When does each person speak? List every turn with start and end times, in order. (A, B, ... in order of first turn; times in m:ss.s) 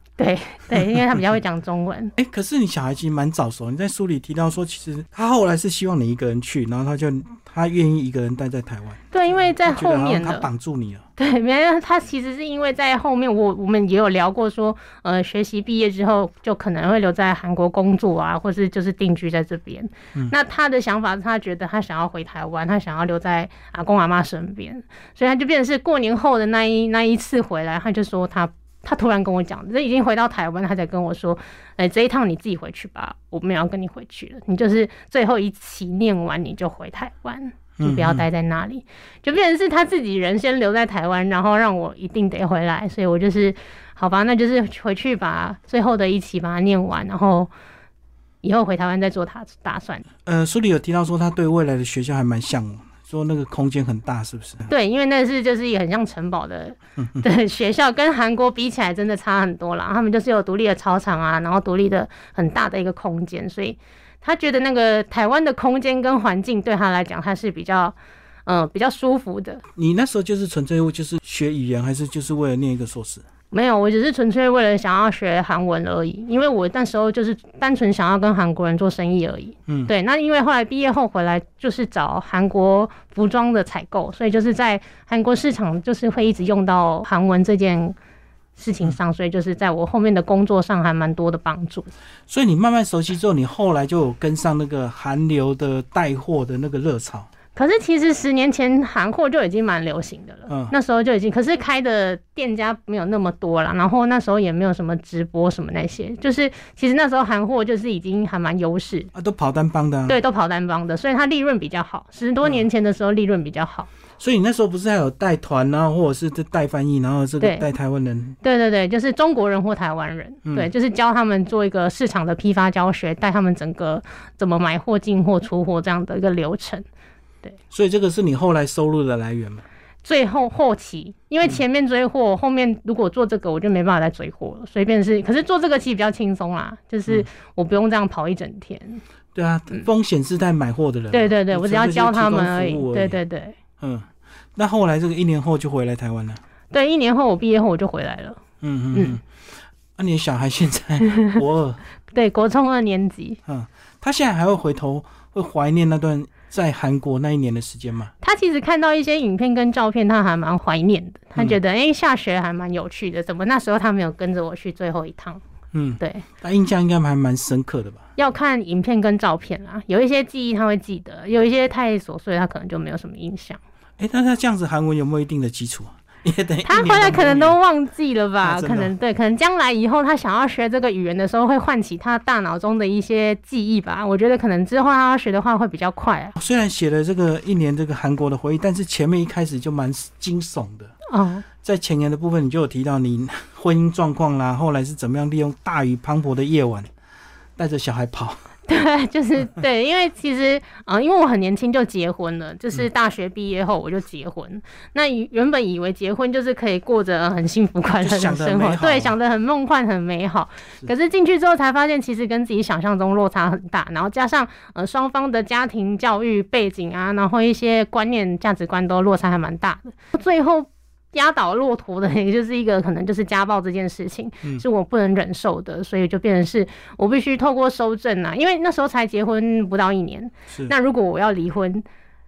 0:00.2-0:02.1 A
0:02.2-0:09.0 B
0:09.1-0:10.5 A
0:09.6-0:11.0 B
0:11.2-0:47.5 A
0:37.8-0:38.2 B
0:48.4-0:50.1 A
0:50.2-0:54.7 B
0:54.7-1:08.0 A
0:57.0-0:57.2 B
1:08.5-1:09.6 A
1:09.8-1:13.2 B
1:13.5-1:28.0 A
1:28.6-1:31.9 A
1:32.3-1:37.3 B
1:37.6-1:49.1 A
1:40.5-1:40.8 B
1:49.1-1:50.2 B
1:50.1-1:53.9 A
1:54.2-1:58.4 B
1:57.4-1:57.7 A
1:58.4-2:06.8 A
2:07.7-2:09.6 B
2:10.0-2:19.0 A
2:19.4-2:23.2 B
2:21.1-2:23.6 A
2:23.8-2:26.4 B
2:26.7-2:28.4 A
2:28.6-2:29.2 B
2:28.9-2:29.2 A
2:30.0-2:31.8 B
2:32.1-2:33.4 A
2:33.5-2:38.1 B
2:38.2-2:45.4 A
2:45.7-2:48.0 B
2:46.0-2:46.3 A
2:48.2-2:53.6 A
2:54.0-2:57.6 B
2:56.7-3:06.4 A
2:58.4-2:58.9 B
3:06.4-3:10.9 B
3:11.1-3:11.4 A
3:11.6-3:16.9 B
3:17.6-3:18.5 B
3:18.7-3:51.8 A
3:28.0-3:29.2 B